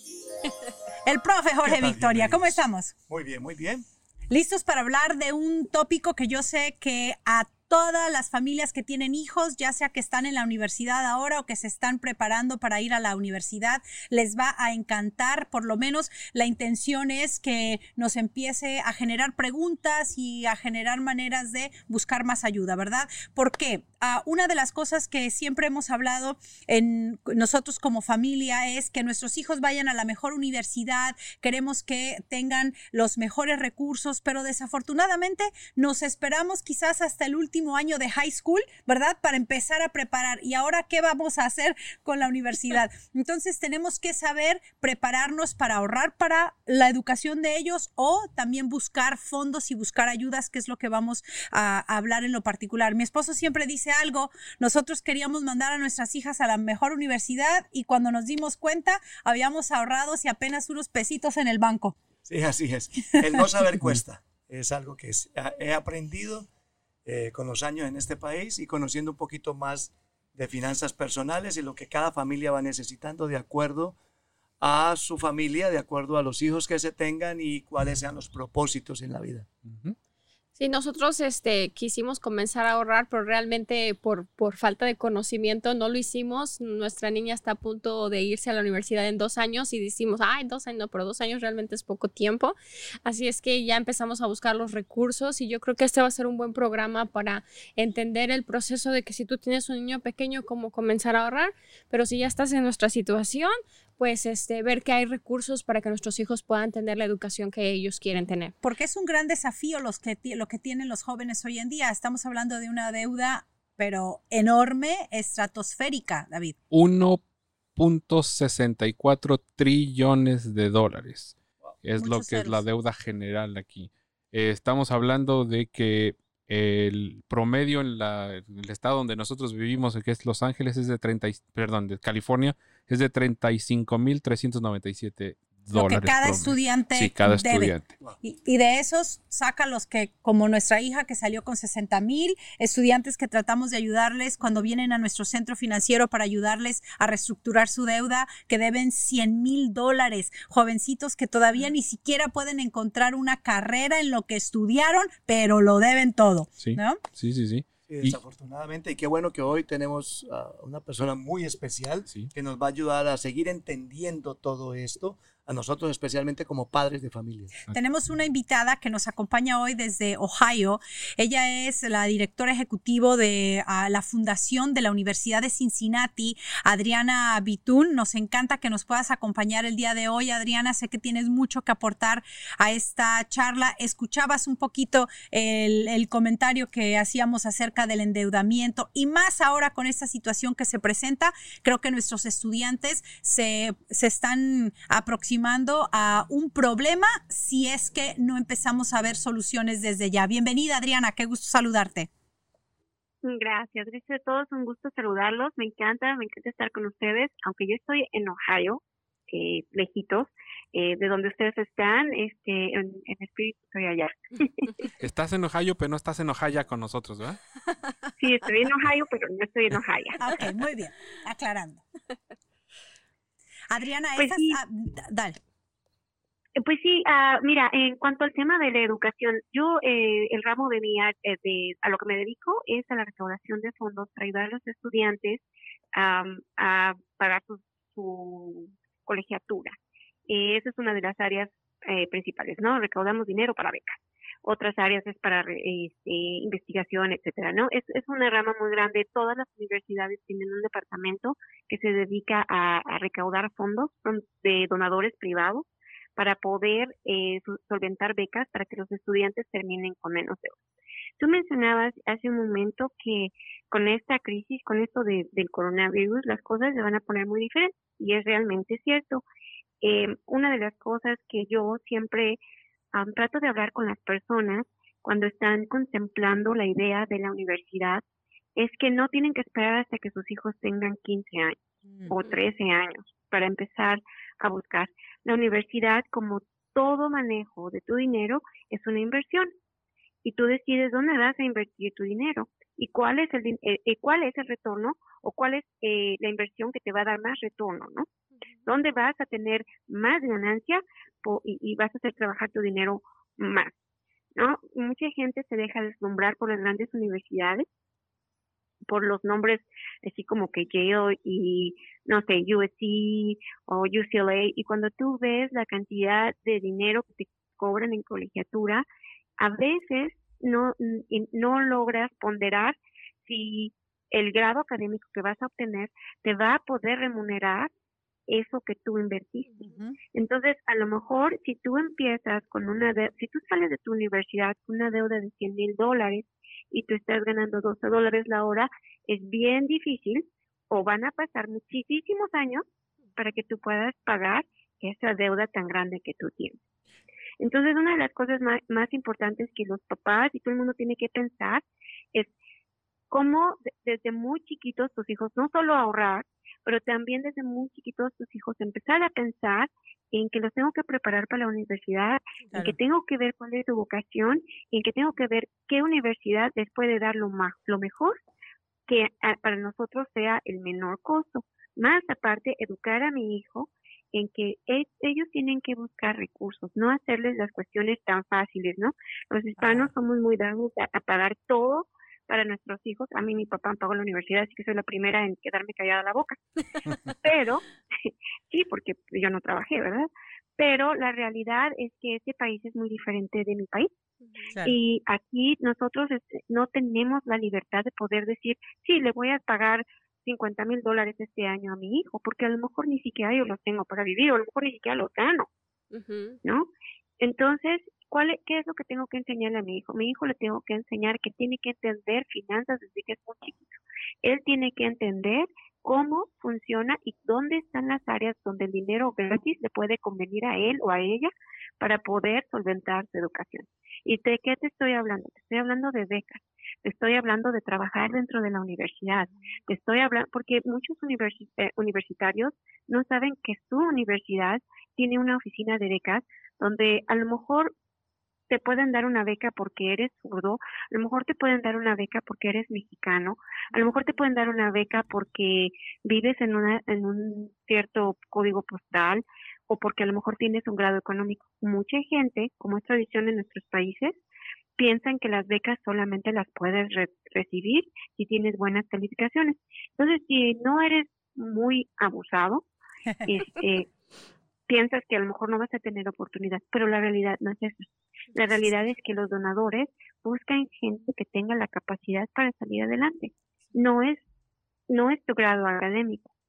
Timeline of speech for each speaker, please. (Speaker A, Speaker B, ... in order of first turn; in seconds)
Speaker A: 1.1-2.9, 4.3-62.0, 108.6-116.5, 122.0-122.6, 135.7-157.0, 167.7-202.1, 220.2-221.8, 223.7-225.4, 281.9-282.1, 329.7-330.0, 379.6-379.9
Speaker B: 1.6-3.8, 62.3-66.5, 67.1-74.0, 74.6-79.5, 157.9-167.5
Speaker C: 79.7-80.0, 116.7-117.2, 117.8-137.9, 156.6-158.2, 162.1-162.3, 215.0-217.4
Speaker D: 80.6-108.5, 405.9-406.4
Speaker E: 203.2-214.8, 218.2-220.2, 224.2-224.6, 226.6-235.4, 235.9-239.8, 240.3-260.6, 261.2-269.2, 269.8-272.4, 272.9-278.0, 278.6-281.6, 282.1-289.5, 290.2-298.1, 298.7-303.7, 304.4-307.6, 308.9-318.9, 319.4-327.7, 328.3-342.6, 343.2-346.6, 347.4-352.3, 353.1-368.2, 368.9-386.4, 387.1-393.9, 394.6-405.5, 406.4-406.7, 407.2-437.7, 438.5-454.2, 454.8-462.6, 463.3-463.9, 464.7-474.2, 474.9-476.3